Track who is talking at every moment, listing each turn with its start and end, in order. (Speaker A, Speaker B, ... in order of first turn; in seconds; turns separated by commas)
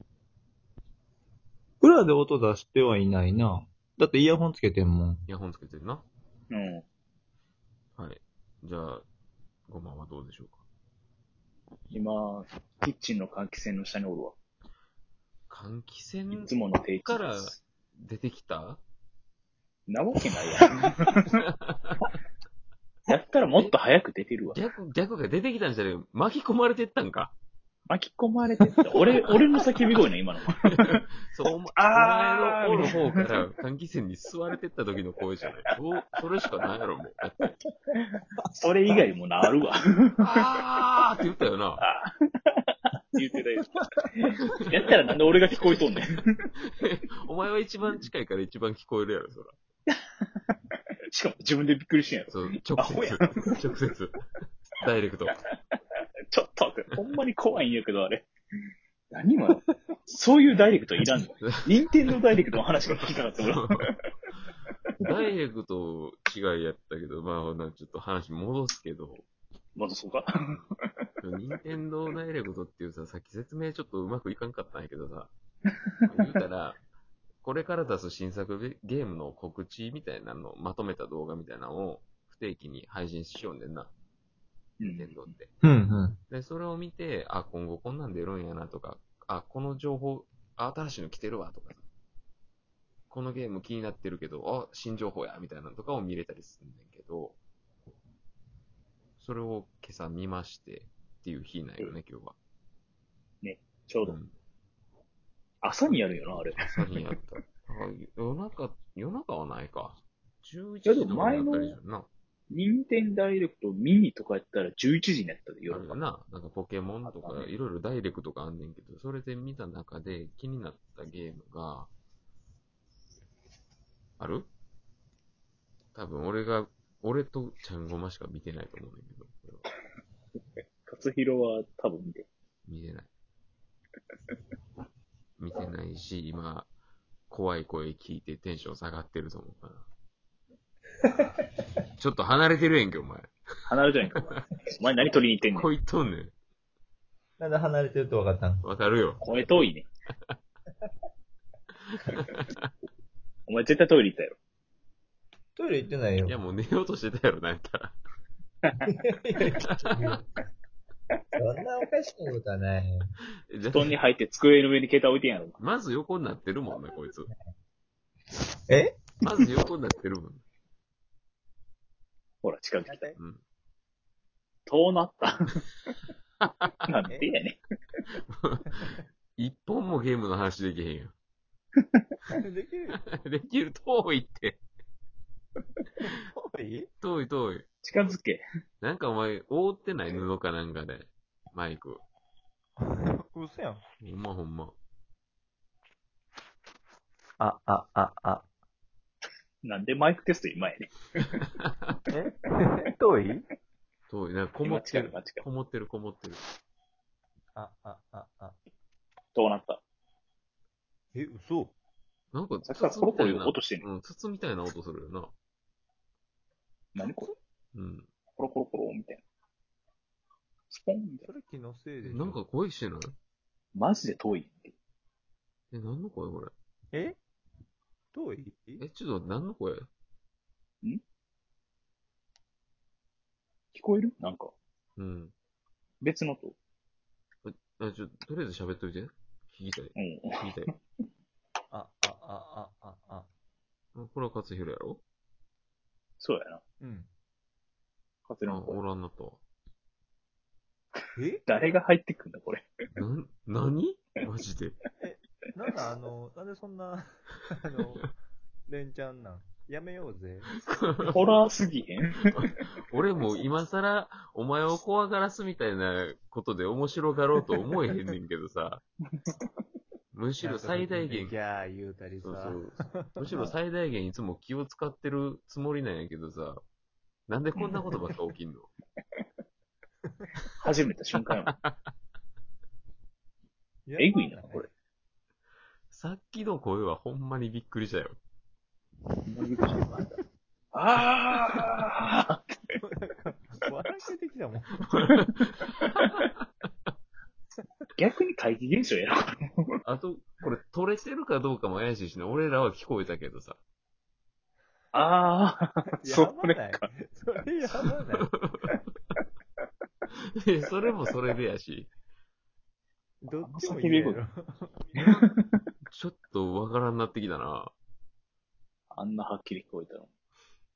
Speaker A: 1.8-5.2, Speaker B: 5.3-6.1, Speaker C: 6.5-6.8, Speaker B: 8.0-9.1, Speaker B: 9.7-10.6, Speaker C: 11.9-14.4, Speaker B: 15.5-18.8, Speaker C: 16.3-17.6, Speaker C: 19.9-21.4, Speaker B: 21.3-22.0, Speaker C: 23.1-24.6, Speaker B: 24.5-27.4, Speaker C: 27.9-30.9, Speaker B: 30.6-37.5, Speaker C: 31.8-33.4, Speaker C: 38.0-40.4, Speaker B: 40.2-41.8, Speaker C: 41.8-42.6, Speaker C: 43.1-46.3, Speaker B: 46.6-49.6, Speaker C: 49.9-50.3, Speaker C: 51.1-53.5, Speaker B: 52.3-54.1, Speaker B: 54.8-55.4, Speaker C: 56.3-58.3, Speaker C: 59.1-64.0, Speaker B: 61.4-62.2, Speaker B: 62.9-63.9, Speaker B: 65.0-69.2, Speaker C: 69.8-70.6, Speaker B: 71.2-75.3, Speaker B: 76.1-76.8, Speaker B: 77.4-83.9, Speaker C: 84.8-85.3, Speaker B: 84.8-85.5, Speaker A: 85.6-86.2, Speaker B: 86.3-91.8, Speaker B: 93.1-97.4, Speaker B: 99.2-102.4, Speaker C: 103.4-104.2, Speaker B: 104.0-104.3, Speaker C: 105.6-106.6, Speaker B: 106.6-112.1, Speaker C: 110.8-111.8, Speaker C: 112.5-116.0, Speaker B: 115.7-121.9, Speaker C: 117.1-117.5, Speaker B: 124.2-124.5, Speaker B: 125.9-129.7, Speaker C: 130.8-132.3, Speaker B: 132.7-133.1, Speaker B: 135.4-136.7, Speaker B: 137.3-139.9, Speaker B: 142.0-143.3, Speaker C: 143.7-145.7, Speaker B: 145.5-146.3, Speaker A: 147.4-148.7, Speaker B: 148.6-149.7, Speaker C: 149.2-149.9, Speaker B: 151.9-152.7, Speaker C: 153.5-154.4, Speaker A: 155.6-156.4, Speaker B: 156.2-158.0, Speaker A: 158.8-160.3, Speaker B: 159.4-160.2, Speaker A: 161.4-163.1, Speaker B: 163.5-163.9, Speaker C: 163.7-165.6, Speaker B: 165.6-167.3, Speaker A: 168.7-169.0, Speaker B: 169.2-170.4, Speaker C: 172.4-173.2, Speaker A: 172.9-173.2, Speaker B: 173.2-173.4, Speaker C: 174.7-175.6, Speaker B: 176.4-176.7, Speaker C: 176.9-177.6, Speaker B: 178.3-181.1, Speaker A: 182.3-183.0, Speaker B: 183.1-184.6, Speaker A: 186.0-186.9, Speaker B: 187.0-187.7, Speaker C: 187.8-188.4, Speaker B: 188.8-192.0, Speaker A: 192.8-193.8, Speaker B: 194.0-194.8, Speaker A: 197.4-198.5, Speaker C: 199.6-201.4, Speaker A: 202.1-203.4, Speaker B: 204.1-206.4, Speaker C: 204.6-205.4, Speaker A: 207.6-208.6, Speaker C: 209.3-209.8, Speaker A: 211.1-211.7, Speaker B: 212.3-215.3, Speaker C: 212.7-213.9, Speaker C: 216.9-217.3, Speaker A: 217.0-217.3, Speaker B: 217.7-218.1, Speaker C: 218.4-219.2, Speaker C: 220.7-221.3, Speaker A: 221.2-222.4, Speaker B: 222.0-223.2, Speaker C: 223.8-224.7, Speaker B: 225.7-226.5, Speaker A: 226.9-227.2, Speaker A: 228.1-228.8, Speaker B: 228.8-229.9, Speaker C: 233.7-234.5, Speaker B: 235.0-235.3, Speaker C: 236.0-236.6, Speaker B: 237.4-240.7, Speaker C: 239.9-240.7, Speaker A: 241.7-243.3, Speaker B: 243.9-245.0, Speaker C: 246.2-246.6, Speaker A: 246.8-247.1, Speaker C: 248.3-248.8, Speaker B: 248.5-249.4, Speaker A: 251.2-251.5, Speaker C: 251.5-252.7, Speaker B: 252.9-254.8, Speaker A: 255.0-258.1, Speaker A: 258.7-260.5, Speaker B: 260.7-261.4, Speaker C: 261.1-262.4, Speaker B: 262.3-268.8, Speaker B: 270.1-271.4, Speaker A: 270.4-273.1, Speaker B: 272.2-276.6, Speaker B: 277.3-278.7, Speaker C: 280.6-281.5, Speaker A: 283.9-284.7, Speaker C: 284.0-284.7, Speaker B: 285.9-288.2, Speaker C: 289.3-290.2, Speaker C: 290.7-292.8, Speaker A: 292.8-294.9, Speaker B: 294.9-296.4, Speaker C: 295.9-296.2, Speaker C: 298.0-299.7, Speaker B: 299.8-303.6, Speaker C: 304.9-306.9, Speaker A: 306.0-308.3, Speaker B: 308.2-308.6, Speaker B: 310.4-311.9, Speaker A: 313.2-315.3, Speaker C: 313.4-314.2, Speaker C: 315.0-315.4, Speaker B: 315.9-317.7, Speaker C: 318.9-320.1